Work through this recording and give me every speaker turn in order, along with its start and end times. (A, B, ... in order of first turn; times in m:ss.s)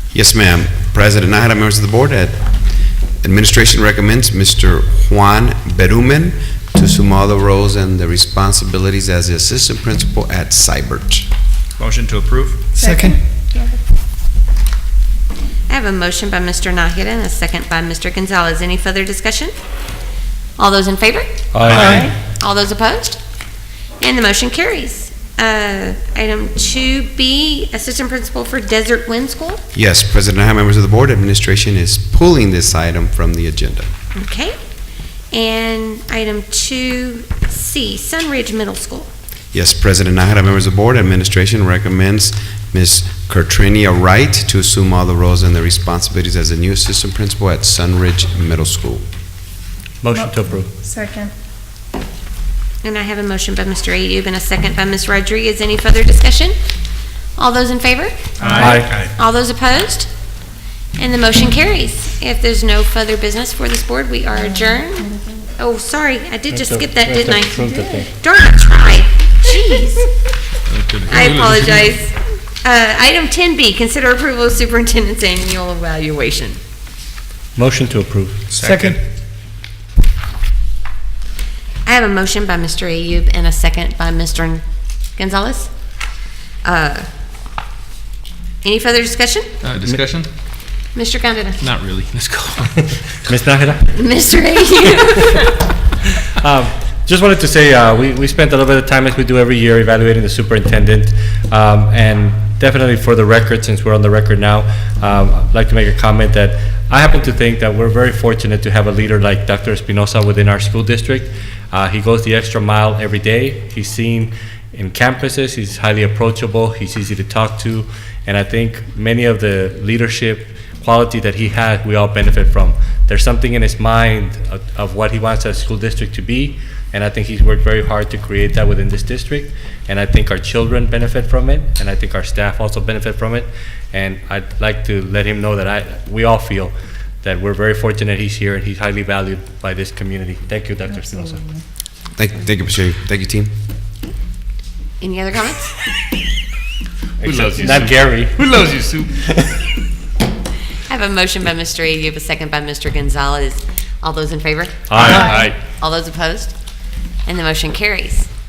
0:00.1-0:02.4 A
0:03.2-0:11.3 A
0:11.8-0:13.2 B
0:12.8-0:13.8 C
0:15.7-0:19.5 D
0:20.6-0:21.8 D
0:21.5-0:22.1 E
0:21.6-0:22.1 B
0:21.8-0:22.1 C
0:22.3-0:23.2 D
0:24.0-0:29.6 D
0:29.7-0:33.9 A
0:34.2-0:34.6 D
0:35.3-0:39.1 D
0:39.5-0:49.0 A
0:50.0-0:50.7 E
0:50.1-0:51.3 C
0:52.8-0:56.6 D
0:57.4-1:00.1 D
0:58.4-0:59.1 B
0:58.5-0:58.9 E
1:01.0-1:10.1 D
1:06.5-1:08.1 E
1:07.6-1:08.0 C
1:10.7-1:11.9 F
1:11.1-1:16.6 D
1:17.6-1:19.0 E
1:18.5-1:19.0 B
1:21.9-1:24.6 D
1:25.2-1:25.7 D
1:26.6-1:27.1 D
1:28.6-1:29.5 D
1:29.6-1:30.3 F
1:31.0-1:31.6 D
1:31.6-1:32.8 F
1:33.2-1:33.9 E
1:33.9-1:35.5 D
1:36.4-2:21.5 E
2:22.2-2:23.5 A
2:25.0-2:25.8 D
2:27.2-2:29.1 F
2:27.2-2:28.4 E
2:29.2-2:29.5 E
2:30.9-2:36.5 D
2:34.9-2:35.6 E
2:37.3-2:38.3 D